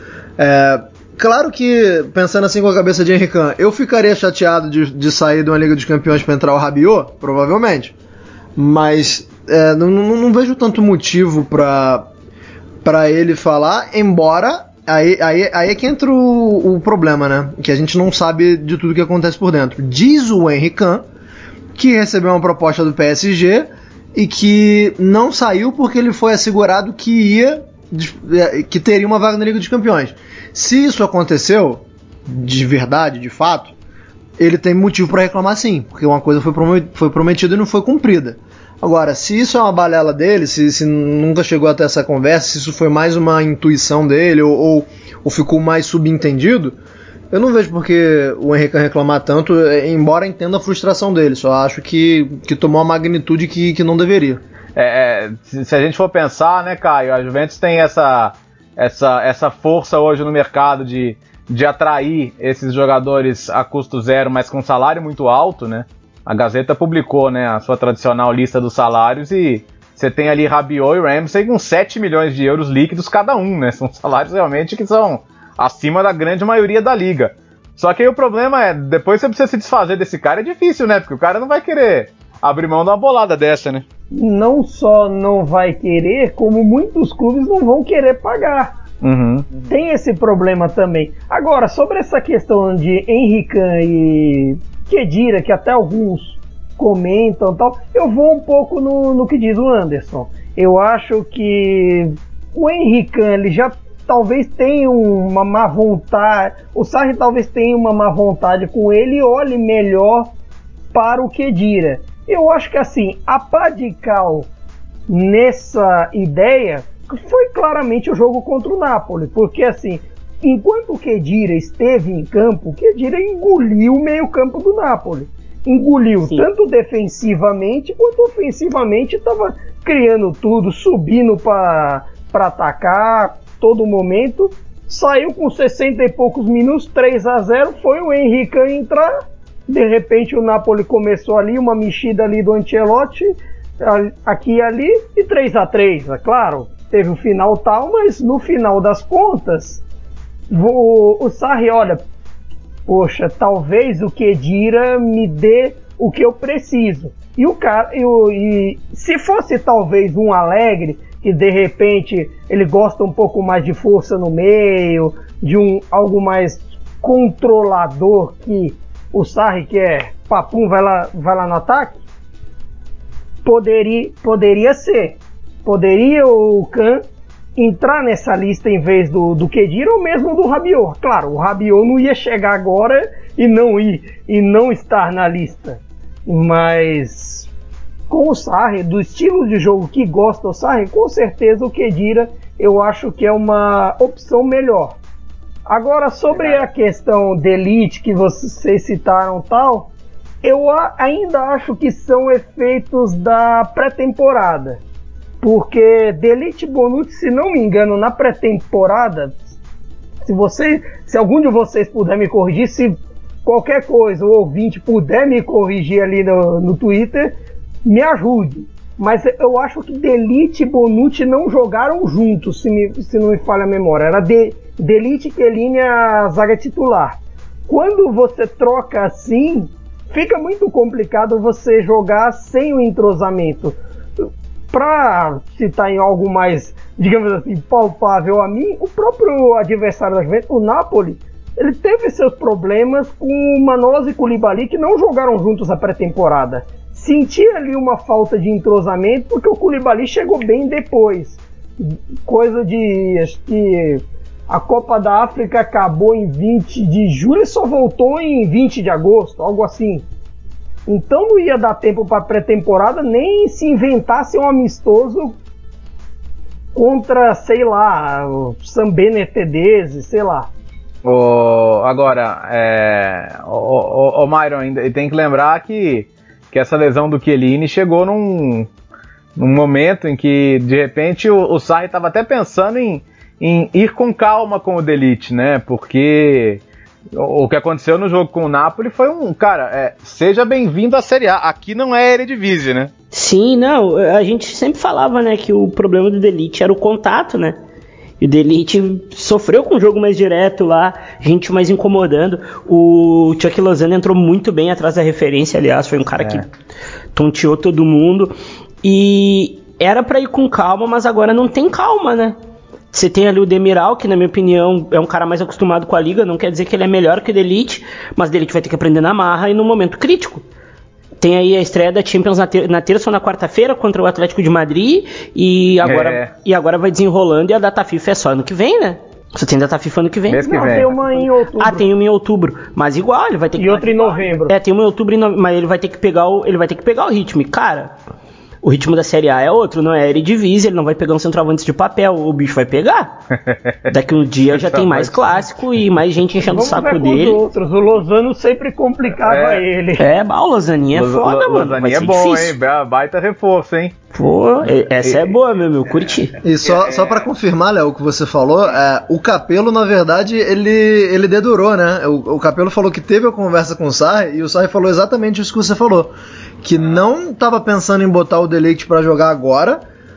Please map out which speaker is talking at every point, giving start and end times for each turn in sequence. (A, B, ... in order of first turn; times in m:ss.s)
0:00.4-0:07.9 A
0:08.6-0:12.1 A
0:12.8-0:21.0 A
0:21.8-0:33.7 A
0:34.4-0:46.8 A
0:47.3-0:54.4 A
0:54.8-1:23.8 B
1:24.1-1:28.7 C
1:29.0-1:29.5 B
1:29.6-1:50.3 C
1:50.9-1:54.5 C
1:55.1-2:29.8 C
2:30.5-2:32.0 C
2:32.9-2:52.0 C
2:53.4-2:57.0 C
2:57.6-3:07.5 C
3:08.1-3:15.0 C
3:15.7-3:19.9 C
3:16.3-3:16.6 B
3:20.4-3:24.8 C
3:25.4-3:29.4 C
3:30.2-3:37.3 C
3:37.8-4:20.0 C
4:20.9-4:25.4 C
4:26.7-4:30.5 C
4:31.0-4:38.7 B
4:39.4-4:46.6 B
4:47.1-4:52.9 B
4:53.1-4:57.6 D
4:58.2-5:06.5 D
5:06.2-5:06.4 B
5:07.1-5:12.3 D
5:12.9-5:20.4 D
5:21.2-5:30.9 D
5:25.8-5:26.3 B
5:30.3-5:30.9 B
5:30.4-5:31.8 C
5:31.6-5:37.9 D
5:33.6-5:34.5 C
5:38.6-5:43.2 D
5:43.4-5:43.9 B
5:43.9-5:47.4 D
5:44.4-5:45.5 B
5:46.4-5:50.0 C
5:49.2-5:49.6 B
5:50.0-5:52.6 D
5:50.9-5:54.0 B
5:54.1-5:56.3 D
5:54.6-5:55.3 B
5:56.4-6:09.8 A